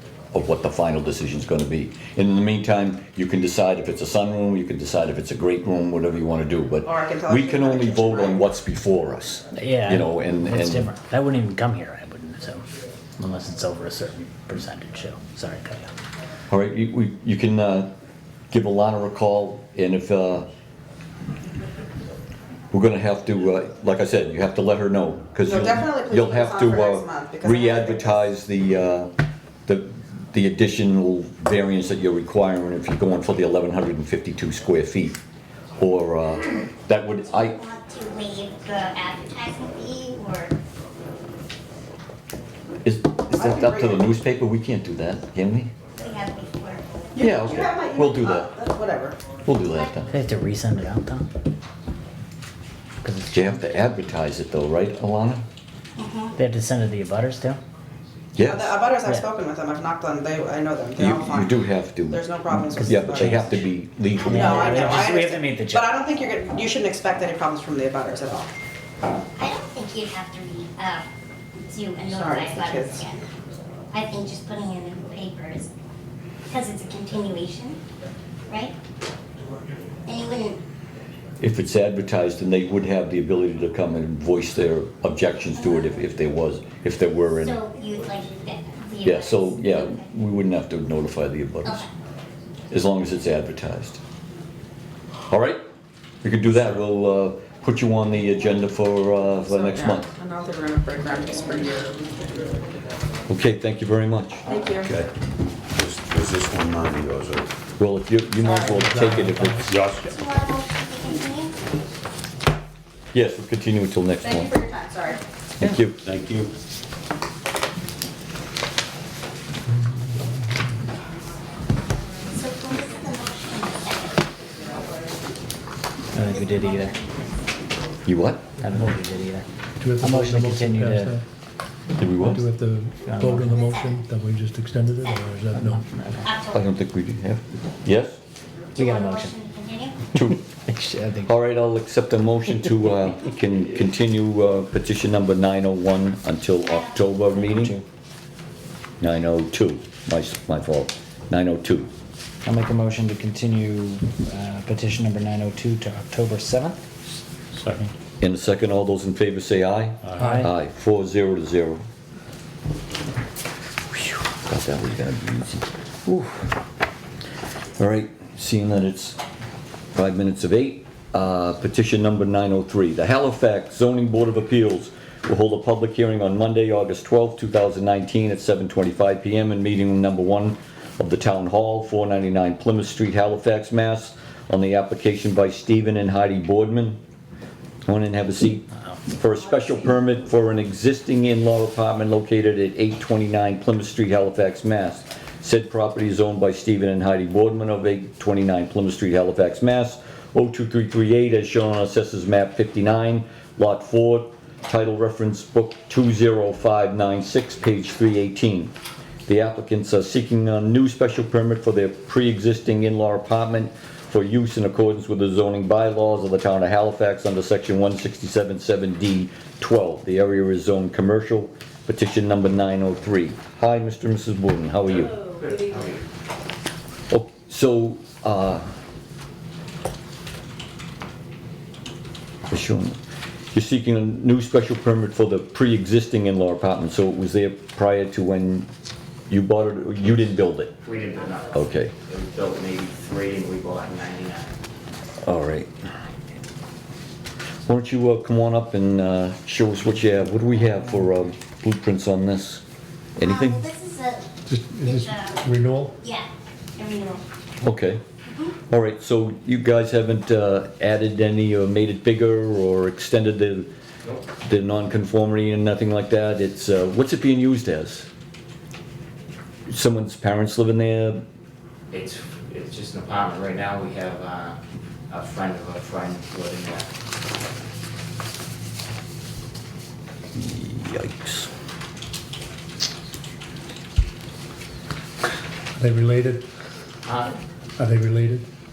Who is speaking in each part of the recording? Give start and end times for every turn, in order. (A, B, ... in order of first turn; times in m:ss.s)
0:00.3-0:10.9 A
0:06.8-0:08.4 B
0:09.5-0:12.6 C
0:13.2-0:15.9 C
0:16.5-0:17.9 A
0:18.5-0:20.5 A
0:22.7-0:29.1 A
0:25.4-0:28.3 B
0:29.7-0:35.2 A
0:35.8-0:37.6 A
0:37.3-0:40.6 D
0:42.8-0:45.7 A
0:43.3-0:44.1 B
0:46.0-0:46.9 D
0:47.1-0:49.2 B
0:47.2-0:48.5 A
0:49.4-0:50.1 A
0:49.7-0:50.0 D
0:50.1-0:51.2 C
0:53.0-0:53.4 C
0:53.3-0:55.4 A
0:56.0-0:56.3 D
0:56.4-0:57.6 C
0:58.4-0:58.8 A
0:58.4-1:03.5 B
1:01.0-1:02.2 A
1:02.7-1:03.6 C
1:02.8-1:05.1 A
1:04.2-1:05.1 D
1:04.3-1:08.5 B
1:04.3-1:06.0 C
1:09.4-1:11.1 D
1:11.7-1:13.2 D
1:12.0-1:13.0 B
1:13.9-1:15.7 D
1:16.5-1:17.8 D
1:18.5-1:18.7 D
1:20.1-1:20.6 D
1:21.4-1:27.6 A
1:25.5-1:25.8 D
1:27.3-1:30.0 D
1:29.0-1:31.8 A
1:31.6-1:31.9 D
1:32.7-1:34.0 A
1:35.2-1:35.6 A
1:36.2-1:40.1 A
1:39.4-1:42.5 B
1:43.3-1:44.4 A
1:44.4-1:45.0 B
1:44.8-1:45.1 E
1:45.7-1:47.5 E
1:47.8-1:49.7 A
1:48.4-1:49.0 B
1:48.8-1:49.9 F
1:49.7-1:50.1 E
1:50.0-1:51.6 D
1:53.1-1:54.5 A
1:54.2-1:55.2 B
1:55.6-1:56.0 A
1:56.0-1:56.5 E
2:02.3-2:04.2 D
2:06.1-2:06.9 C
2:06.2-2:07.4 D
2:08.0-2:08.5 A
2:08.6-2:09.4 C
2:09.8-2:11.2 F
2:10.0-2:11.1 C
2:12.0-2:12.4 A
2:12.1-2:15.9 F
2:13.1-2:13.5 C
2:13.5-2:14.0 D
2:15.7-2:16.2 C
2:16.2-2:16.7 D
2:16.5-2:18.2 A
2:18.8-2:19.3 C
2:18.8-2:20.0 D
2:20.1-2:20.4 A
2:20.6-2:21.3 C
2:21.2-2:27.8 A
2:26.6-2:27.3 D
2:27.5-2:27.8 C
2:29.0-2:31.9 A
2:32.4-2:36.8 C
2:37.5-2:37.9 E
2:38.2-2:41.8 A
2:40.0-2:40.3 E
2:40.2-2:40.5 C
2:43.9-2:46.5 A
2:47.8-2:49.2 A
2:50.0-3:07.0 A
3:07.9-3:28.7 A
3:29.3-3:45.2 A
3:45.1-3:46.0 G
3:47.1-3:48.6 A
3:52.5-3:53.0 A
3:53.5-3:58.7 A
3:59.3-4:00.7 A
4:00.8-4:04.5 G
4:01.5-4:01.9 A
4:05.2-4:05.7 A
4:07.6-4:12.6 A
4:13.2-4:13.7 A
4:13.2-4:17.2 D
4:14.5-4:16.0 F
4:17.6-4:18.0 A
4:18.3-4:18.5 D
4:18.7-4:23.7 A
4:24.4-4:28.1 A
4:29.7-4:31.2 A
4:31.9-4:34.6 G
4:35.1-4:36.9 G
4:40.3-4:41.5 A
4:45.8-4:46.4 F
4:47.0-4:47.4 G
4:47.8-4:48.4 F